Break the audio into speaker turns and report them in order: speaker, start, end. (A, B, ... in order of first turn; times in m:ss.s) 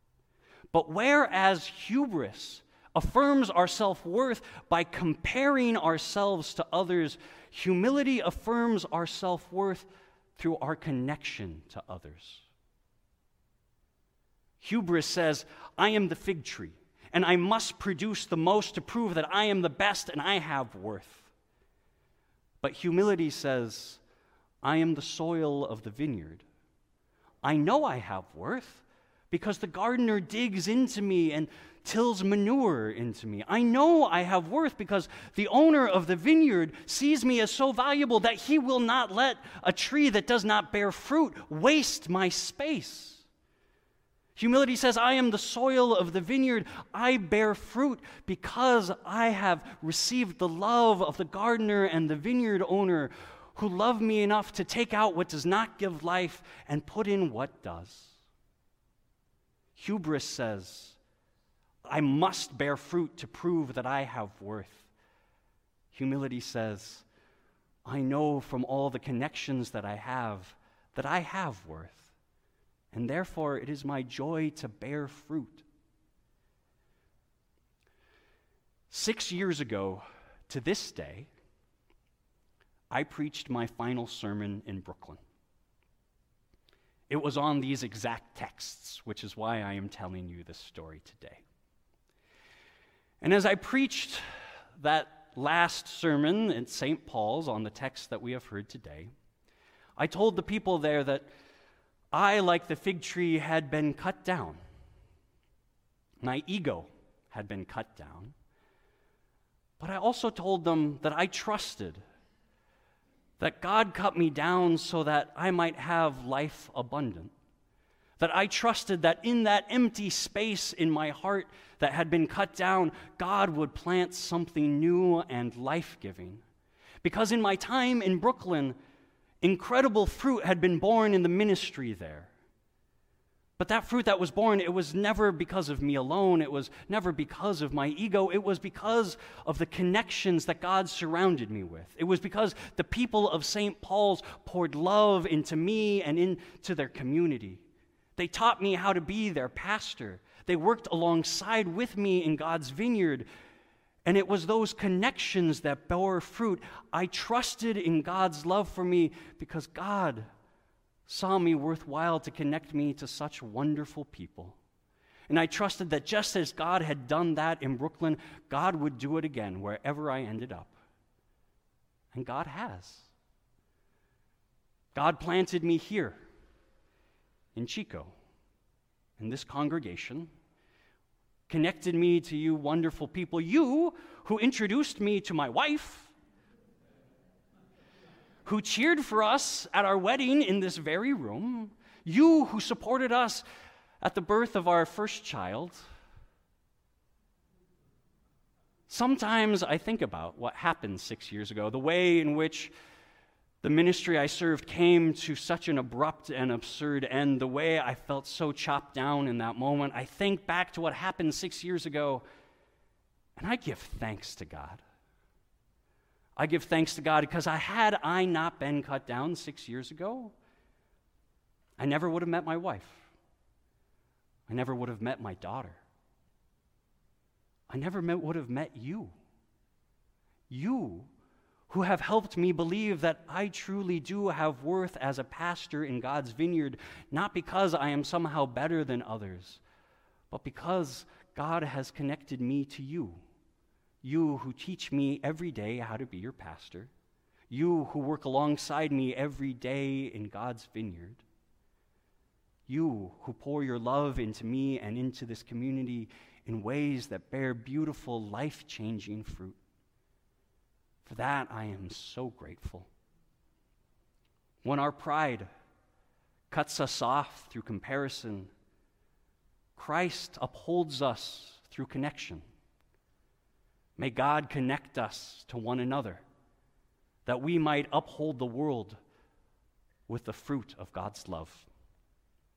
0:00.7-0:12.5 A
0:14.6-0:21.3 A
0:22.6-0:24.0 A
0:24.6-0:26.4 A
0:27.4-0:43.2 A
0:44.4-0:58.2 A
0:59.8-1:01.0 A
1:01.8-1:04.9 A
1:05.9-1:07.0 A
1:07.8-1:12.1 A
1:12.9-1:15.6 A
1:18.9-1:21.3 A
1:22.9-1:25.2 A
1:27.1-1:31.4 A
1:33.2-1:34.2 A
1:34.8-1:39.1 A
1:40.0-1:41.3 A
1:42.1-1:44.6 A
1:46.2-1:48.3 A
1:49.8-1:52.0 A
1:53.4-1:57.3 A
1:58.2-2:06.4 A
2:07.0-2:08.8 A
2:09.4-2:12.3 A
2:13.6-2:27.6 A
2:28.2-2:33.3 A
2:34.0-2:40.3 A
2:41.1-2:44.6 A
2:45.3-2:50.8 A
2:52.1-2:53.1 A
2:55.0-2:56.2 A
2:57.6-2:58.1 A
2:59.2-3:00.3 A
3:01.5-3:06.1 A
3:08.4-3:13.4 A
3:14.0-3:15.8 A
3:18.9-3:22.7 A
3:23.6-3:32.2 A
3:33.4-3:34.8 A
3:36.4-3:40.4 A
3:41.8-3:43.1 A
3:44.5-3:45.8 A
3:47.7-3:49.2 A
3:50.5-3:51.1 A
3:51.7-3:59.6 A
4:00.3-4:03.2 A
4:04.0-4:06.9 A
4:07.5-4:11.2 A
4:12.7-4:19.6 A
4:21.0-4:22.9 A
4:24.6-4:25.5 A
4:26.5-4:28.5 A
4:29.8-4:32.4 A
4:34.0-4:36.2 A
4:37.3-4:39.0 A
4:40.1-4:41.7 A